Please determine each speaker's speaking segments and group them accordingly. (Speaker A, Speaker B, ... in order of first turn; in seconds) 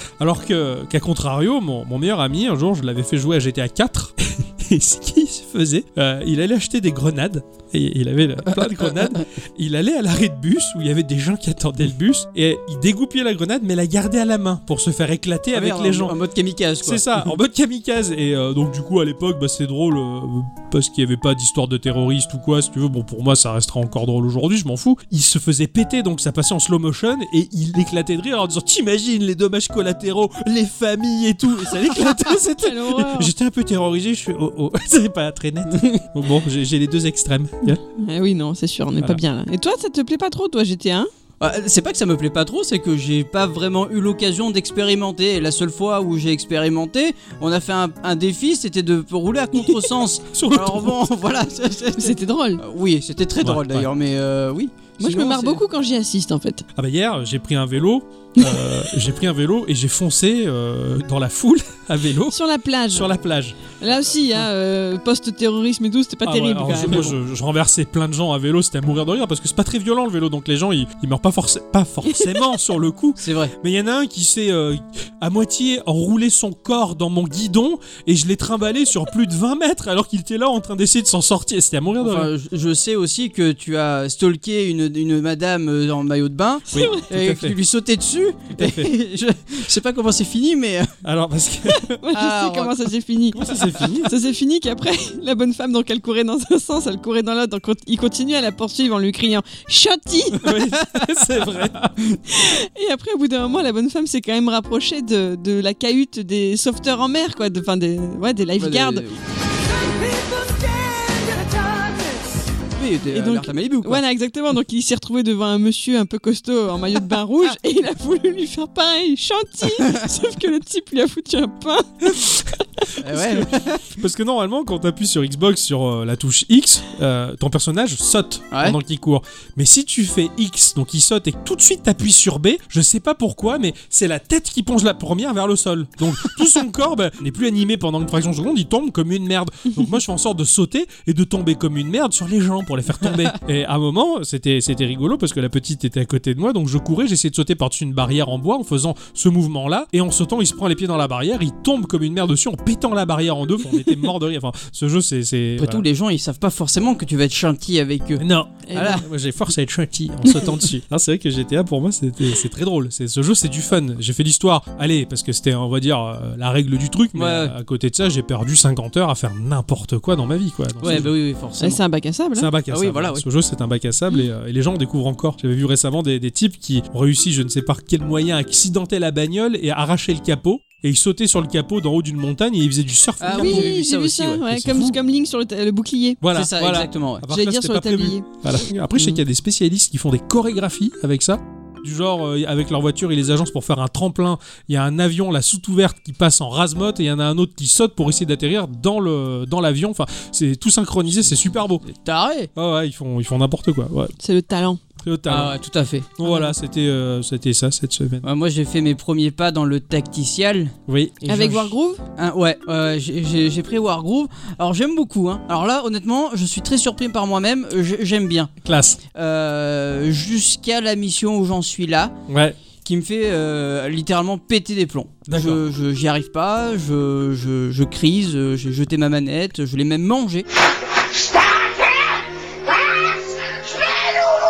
Speaker A: 0.2-16.1, 16.8-37.8, 50.3-50.9, 53.4-53.9, 56.8-62.4, 62.9-64.4, 66.2-82.3, 86.7-87.5, 88.5-88.9, 91.0-91.9, 93.3-94.1, 100.4-101.9, 122.0-122.5, 123.0-155.8, 158.2-171.1, 172.3-183.7, 184.5-185.0, 186.2-201.8, 202.5-204.1, 205.0-205.5, 206.2-208.2, 210.9-211.7, 218.6-219.0, 222.3-222.6, 225.3-225.6
Speaker B: 8.5-9.2, 15.5-17.2, 35.7-36.0, 41.4-55.6, 73.2-73.5, 82.0-90.9, 92.1-92.9, 108.6-114.0, 123.0-123.9, 128.5-128.8, 155.6-158.2, 158.7-159.0, 167.1-167.5, 170.8-171.8, 172.7-173.2, 183.2-184.5, 186.3-187.2, 201.8-202.5, 205.3-206.1, 208.2-211.6, 212.2-218.5, 219.1-222.1, 222.8-230.5
Speaker C: 32.2-33.3, 37.8-41.1, 52.0-52.6, 55.0-56.6, 62.3-63.1, 63.8-67.1, 86.7-87.0, 91.8-100.5, 102.3-109.0, 113.1-122.2, 158.7-159.0, 171.6-172.5, 183.3-186.2, 187.3-188.3, 204.2-204.8, 206.2-206.5, 211.3-212.0